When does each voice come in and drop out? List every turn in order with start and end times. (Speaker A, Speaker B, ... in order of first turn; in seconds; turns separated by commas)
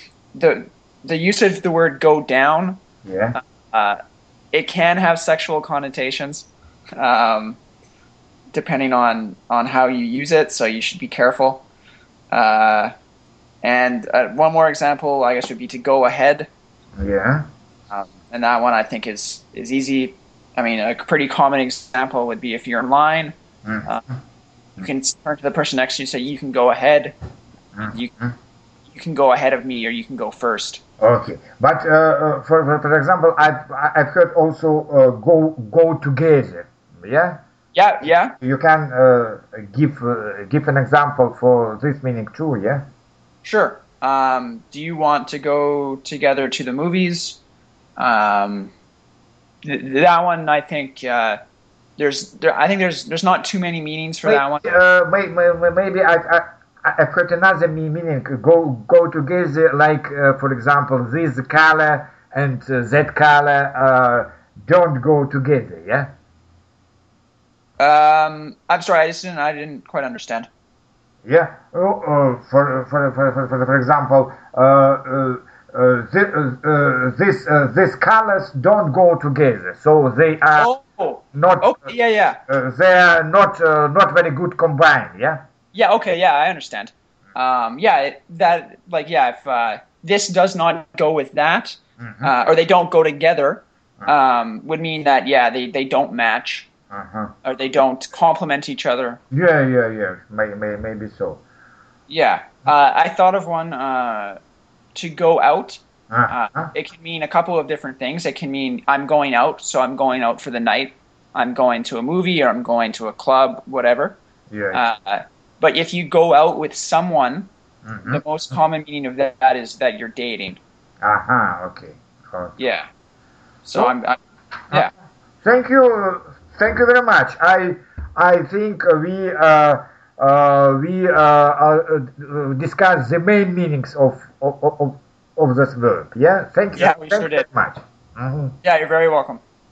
Speaker A: 0.3-2.8, Speaker B: 3.0-3.4, Speaker A: 3.3-4.0, Speaker A: 4.5-7.6, Speaker A: 8.5-11.7, Speaker A: 12.3-12.9, Speaker A: 13.6-16.5, Speaker B: 17.0-17.4, Speaker A: 17.9-23.3, Speaker B: 23.6-24.2, Speaker A: 24.8-27.2, Speaker B: 27.8-28.4, Speaker A: 28.9-30.8, Speaker B: 31.0-37.4, Speaker A: 37.7-38.3, Speaker B: 38.0-42.8, Speaker A: 43.4-47.4, Speaker A: 48.0-48.7, Speaker A: 49.6-51.4, Speaker A: 52.0-54.7, Speaker B: 54.2-66.1, Speaker A: 67.8-70.5, Speaker B: 71.2-80.7, Speaker A: 80.6-82.4, Speaker B: 81.3-81.9, Speaker B: 82.5-85.4, Speaker A: 85.7-96.7, Speaker B: 92.0-92.3, Speaker B: 96.9-97.3, Speaker A: 97.4-99.2, Speaker B: 99.3-101.4, Speaker A: 102.1-104.4, Speaker A: 105.0-114.2, Speaker B: 106.1-106.7, Speaker B: 114.5-114.8, Speaker A: 114.7-117.5, Speaker B: 117.8-118.2, Speaker A: 118.1-120.6, Speaker B: 121.0-122.6, Speaker A: 122.6-122.9, Speaker A: 123.7-124.2, Speaker B: 125.4-138.6, Speaker A: 136.7-137.5, Speaker A: 138.6-139.4